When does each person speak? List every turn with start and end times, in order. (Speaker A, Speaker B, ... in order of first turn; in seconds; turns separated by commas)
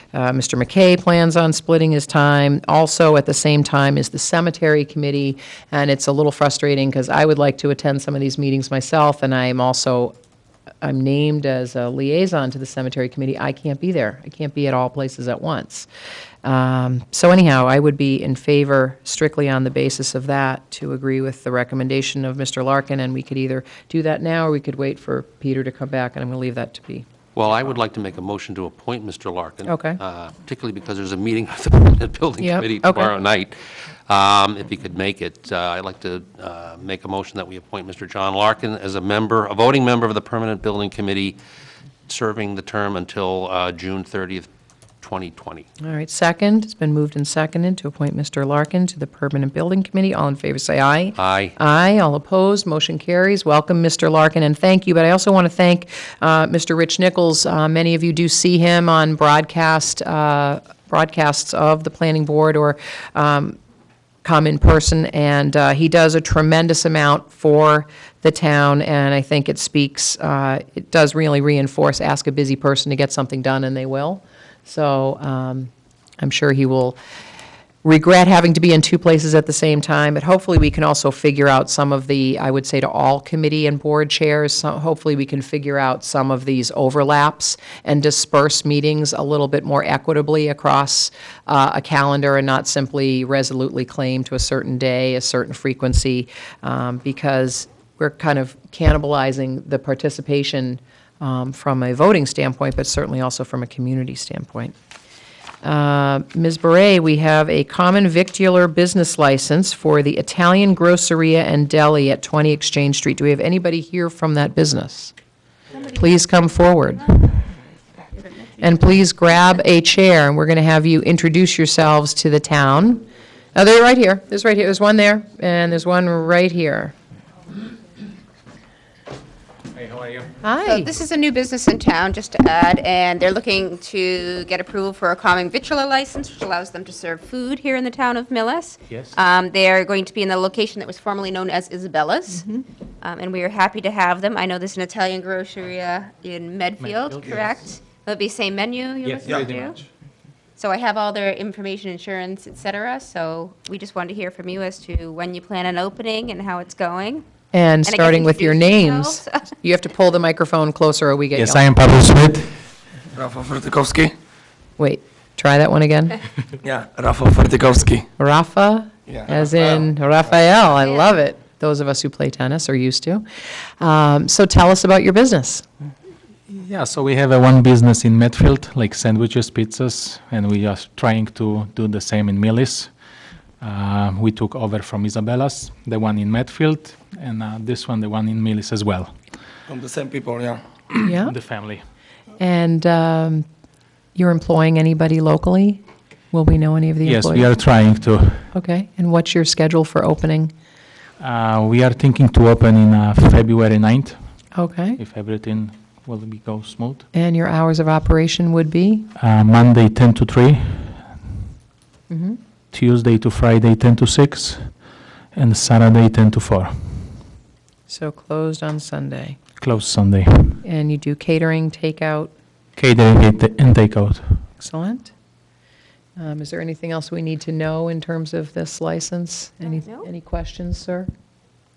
Speaker A: 0.1-10.1, Speaker A: 10.8-15.9, Speaker A: 16.4-27.1, Speaker B: 27.3-41.4, Speaker A: 29.6-30.0, Speaker A: 32.4-33.1, Speaker B: 42.1-44.5, Speaker B: 45.0-45.7, Speaker A: 45.8-63.6, Speaker B: 51.1-51.5, Speaker A: 64.2-77.0, Speaker A: 77.8-104.7, Speaker A: 105.6-115.1, Speaker A: 115.8-117.4, Speaker A: 118.6-123.0, Speaker A: 123.5-126.9, Speaker C: 129.8-130.3, Speaker A: 130.4-130.9, Speaker D: 130.6-142.5, Speaker C: 138.9-139.1, Speaker D: 143.0-149.8, Speaker C: 146.8-147.5, Speaker C: 149.0-149.8, Speaker D: 150.6-157.2, Speaker A: 157.5-161.6, Speaker D: 157.8-159.4, Speaker C: 161.3-162.6, Speaker E: 163.1-164.1, Speaker A: 164.8-166.2, Speaker E: 166.6-168.1, Speaker A: 168.2-173.2, Speaker E: 169.1-169.9, Speaker A: 173.8-175.7, Speaker C: 176.5-182.9, Speaker C: 183.6-189.2, Speaker E: 189.7-190.6, Speaker A: 191.0-191.3, Speaker C: 191.2-191.8, Speaker A: 192.4-193.4, Speaker A: 194.1-197.5, Speaker C: 197.0-198.5, Speaker A: 198.5-200.5, Speaker C: 201.2-204.4, Speaker A: 204.5-205.0, Speaker C: 205.0-207.1, Speaker A: 207.1-209.1, Speaker C: 209.2-211.4, Speaker A: 212.1-212.4, Speaker C: 212.7-214.8, Speaker C: 215.3-217.2, Speaker A: 217.9-219.4, Speaker C: 219.6-220.6, Speaker A: 220.6-222.3, Speaker C: 222.8-224.4, Speaker A: 224.6-225.1, Speaker A: 226.2-231.1, Speaker D: 229.7-230.1